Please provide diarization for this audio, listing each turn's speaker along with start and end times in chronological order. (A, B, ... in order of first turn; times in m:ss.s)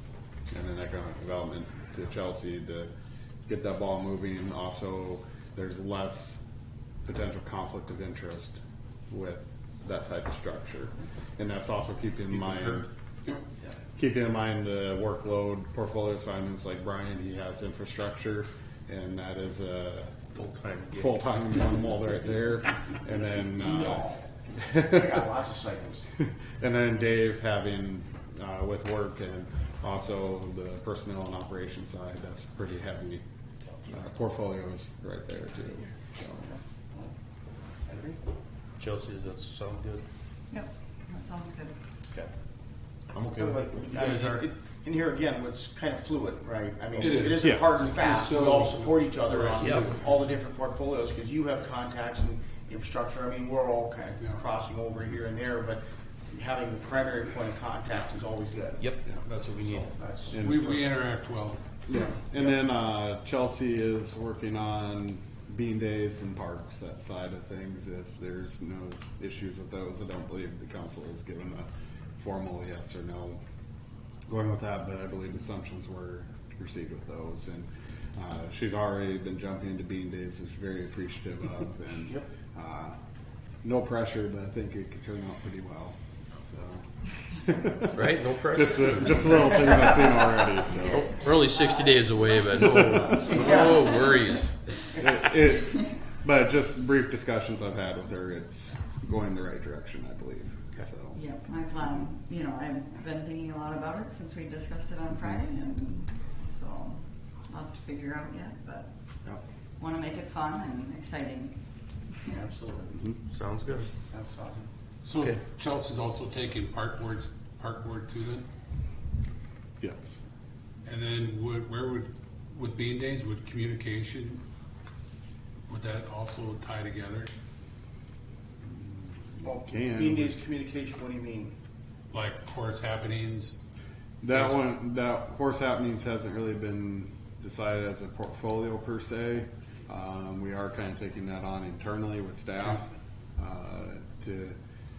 0:00.5-0:02.9 A
0:03.5-0:06.4 A
0:07.0-0:12.9 A
0:14.0-0:20.2 A
0:20.3-0:21.2 B
0:20.9-0:25.2 A
0:23.6-0:24.0 C
0:24.8-0:26.0 C
0:26.6-0:33.2 A
0:33.9-0:36.5 A
0:37.9-0:38.2 C
0:38.8-0:40.0 B
0:40.5-0:41.8 D
0:43.1-0:44.4 B
0:43.3-0:58.9 C
0:47.0-0:50.3 E
0:49.6-0:49.9 B
0:58.8-1:00.0 B
0:59.6-1:00.5 C
1:00.3-1:00.8 A
1:00.4-1:01.6 E
1:01.9-1:13.4 A
1:14.3-1:23.0 A
1:23.6-1:28.0 A
1:27.9-1:29.7 B
1:28.5-1:31.2 A
1:30.7-1:34.7 B
1:30.8-1:34.2 D
1:32.9-1:33.5 A
1:34.9-1:41.2 A
1:41.1-1:48.9 D
1:49.8-1:51.6 D
1:52.3-1:53.0 C
1:53.3-1:53.9 B
1:54.1-1:54.7 C
1:55.0-1:58.4 E
1:59.8-2:00.2 A
2:00.9-2:04.4 E
2:05.7-2:07.3 E
2:08.7-2:10.3 A
2:09.4-2:11.5 C
2:12.1-2:13.5 E
2:14.2-2:14.7 E
2:14.2-2:22.8 A
2:23.4-2:24.6 A